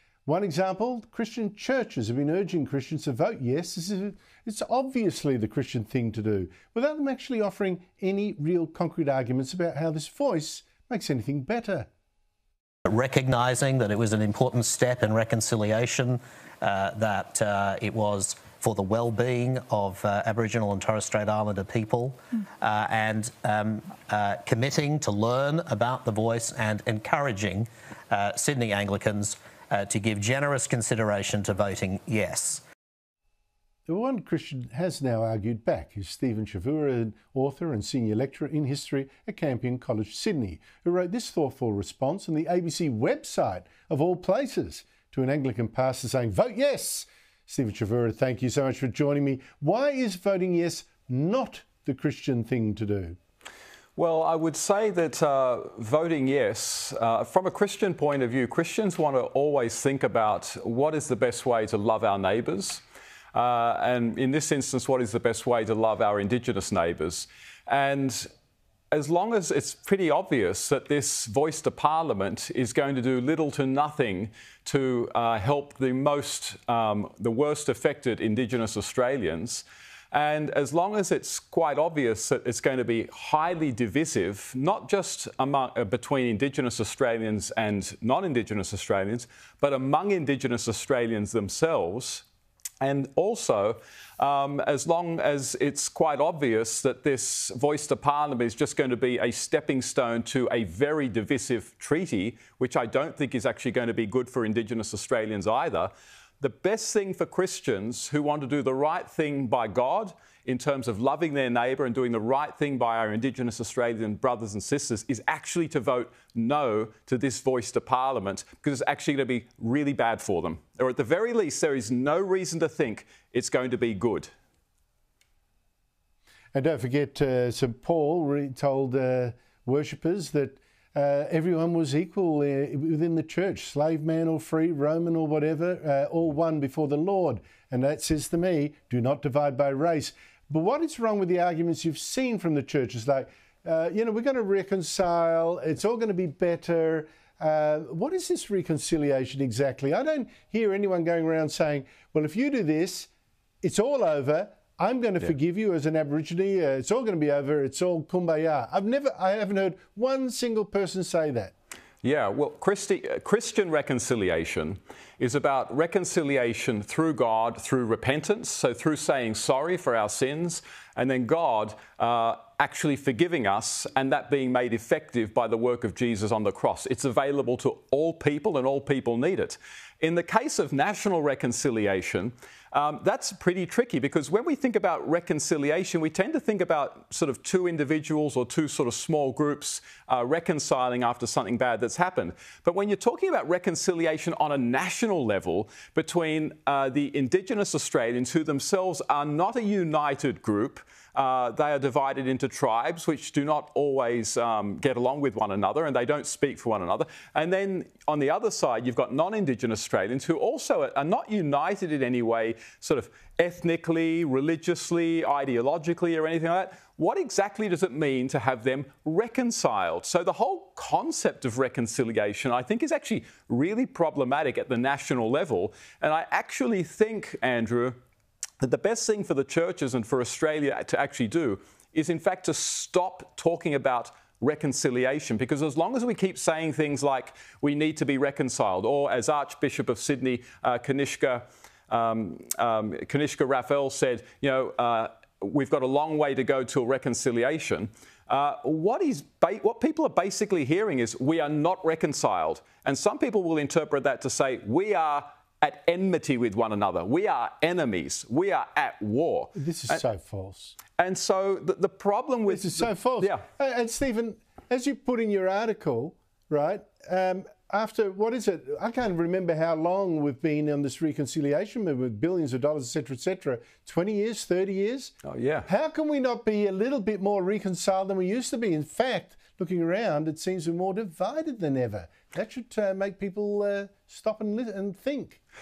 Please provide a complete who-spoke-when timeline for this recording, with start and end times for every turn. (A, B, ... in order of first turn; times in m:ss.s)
0:00.3-0:11.9 A
0:12.9-0:32.6 B
0:33.9-0:53.2 A
0:54.0-1:02.8 C
1:03.3-1:08.3 C
1:08.9-1:32.2 C
1:32.8-2:04.3 C
2:06.5-2:33.1 A
2:33.6-2:41.5 A
2:42.0-3:48.0 C
3:48.6-4:20.0 C
4:19.6-4:20.8 A
4:21.0-4:23.4 C
4:22.5-4:35.2 A
4:35.2-4:35.7 C
4:35.7-4:45.4 A